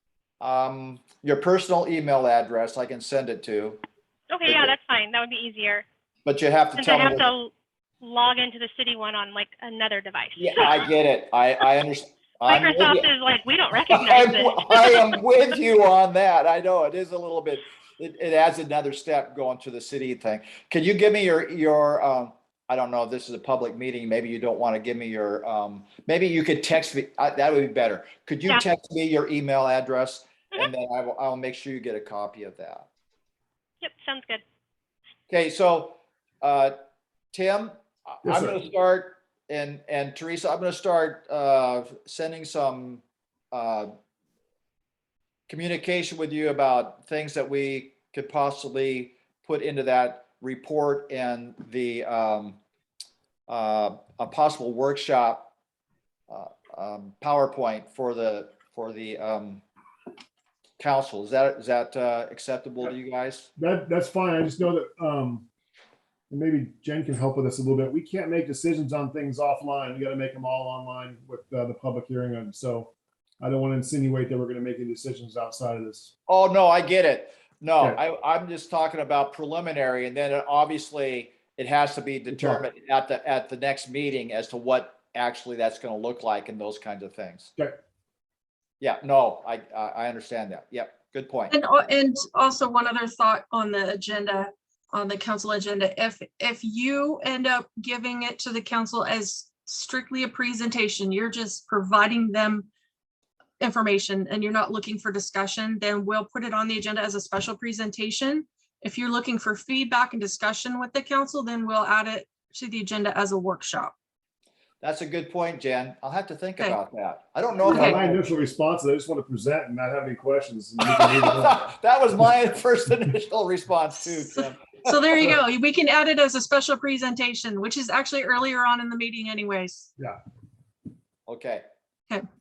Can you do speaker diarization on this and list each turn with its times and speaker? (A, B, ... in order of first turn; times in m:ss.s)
0:00.4-0:03.8 A
0:04.3-0:05.8 B
0:04.5-0:04.7 A
0:06.2-0:07.3 A
0:06.8-0:07.5 B
0:08.0-0:10.9 B
0:10.4-0:13.1 A
0:12.5-0:15.2 B
0:13.9-0:32.9 A
0:33.8-0:34.4 B
0:35.3-0:36.7 A
0:37.3-0:43.9 A
0:38.2-0:38.6 C
0:45.5-0:52.6 A
0:53.5-0:55.5 A
0:56.3-0:59.6 A
1:00.8-1:03.5 A
1:03.6-1:05.5 C
1:06.3-1:16.1 C
1:16.3-1:27.5 A
1:22.3-1:22.6 C
1:28.8-1:31.6 A
1:31.5-1:42.7 D
1:43.6-1:53.9 D
1:54.8-1:58.2 A
1:57.6-2:01.7 C
1:57.7-1:58.0 D
2:00.9-2:05.0 A
2:04.2-2:09.9 D
2:11.3-2:11.6 A